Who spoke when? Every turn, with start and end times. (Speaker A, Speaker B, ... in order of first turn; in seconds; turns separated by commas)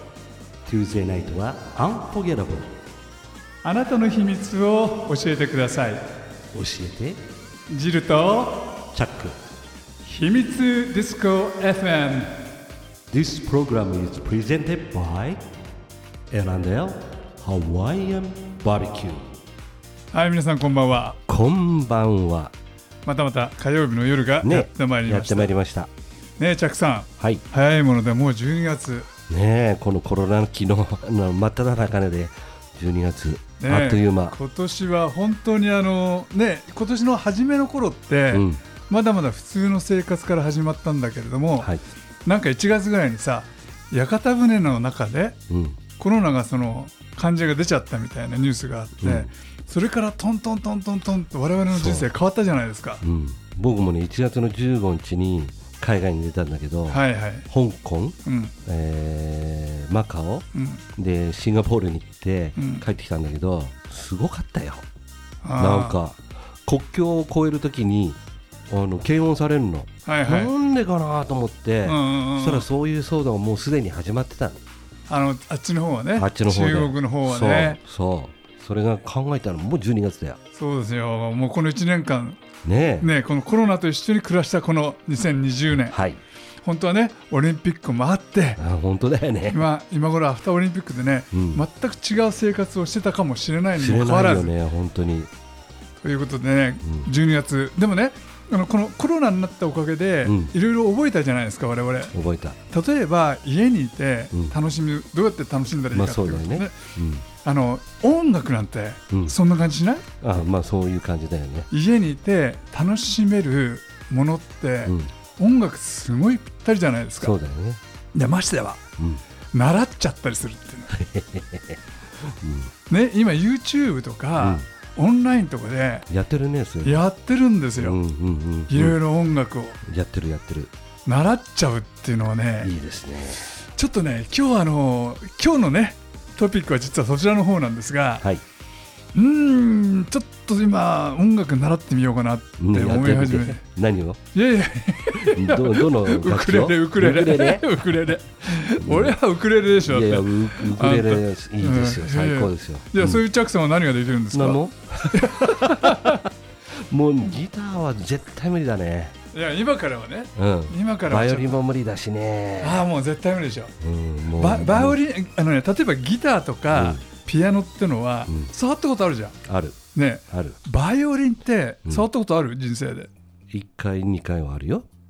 Speaker A: 0.7-2.7, Speaker B: 3.6-6.0, Speaker A: 6.5-7.2, Speaker B: 7.7-8.8, Speaker A: 8.9-9.3, Speaker B: 10.0-12.4, Speaker A: 13.1-15.4, Speaker A: 16.3-19.4, Speaker B: 20.1-21.2, Speaker A: 21.3-22.5, Speaker B: 23.0-25.5, Speaker A: 24.4-25.9, Speaker B: 26.4-29.1, Speaker A: 29.3-34.3, Speaker B: 33.6-41.7, Speaker A: 38.3-38.6, Speaker B: 42.2-45.4, Speaker A: 45.5-45.8, Speaker B: 46.0-53.0, Speaker A: 49.0-49.3, Speaker A: 51.7-52.1, Speaker A: 53.0-64.8, Speaker B: 56.9-57.5, Speaker B: 58.2-58.5, Speaker B: 60.5-60.8, Speaker B: 62.6-62.8, Speaker B: 65.4-66.0, Speaker A: 65.6-68.2, Speaker A: 68.7-74.6, Speaker B: 70.1-70.5, Speaker B: 71.8-72.7, Speaker B: 75.1-77.8, Speaker A: 76.2-80.4, Speaker B: 80.5-82.5, Speaker A: 82.6-83.1, Speaker B: 83.0-86.0, Speaker A: 85.9-86.2, Speaker B: 86.6-88.6, Speaker A: 88.6-89.6, Speaker B: 89.5-94.5, Speaker A: 91.3-91.6, Speaker A: 93.8-95.3, Speaker B: 96.0-102.1, Speaker A: 96.8-97.1, Speaker A: 100.2-100.5, Speaker A: 102.1-102.6, Speaker B: 102.7-106.8, Speaker A: 105.9-107.3, Speaker B: 107.4-110.2, Speaker A: 109.1-109.3, Speaker A: 110.2-111.7, Speaker B: 111.7-117.3, Speaker A: 117.2-117.8, Speaker B: 118.2-118.8, Speaker B: 119.5-120.9, Speaker A: 120.9-122.7, Speaker B: 122.9-126.1, Speaker A: 126.1-127.0, Speaker B: 126.8-128.0, Speaker A: 127.8-129.0, Speaker B: 128.7-129.8, Speaker A: 129.8-130.7, Speaker B: 131.1-132.7, Speaker A: 132.6-133.5, Speaker B: 133.6-138.3, Speaker B: 139.1-143.6, Speaker A: 142.6-144.2, Speaker B: 144.3-156.2, Speaker A: 145.2-147.8, Speaker A: 148.6-149.2, Speaker A: 149.8-153.2, Speaker A: 154.3-159.1, Speaker B: 159.3-161.6, Speaker A: 160.4-162.8, Speaker B: 162.6-163.7, Speaker A: 163.8-164.9, Speaker B: 164.4-169.4, Speaker A: 166.7-167.0, Speaker A: 169.5-169.8, Speaker B: 169.9-173.1, Speaker A: 170.3-170.6, Speaker A: 173.5-174.8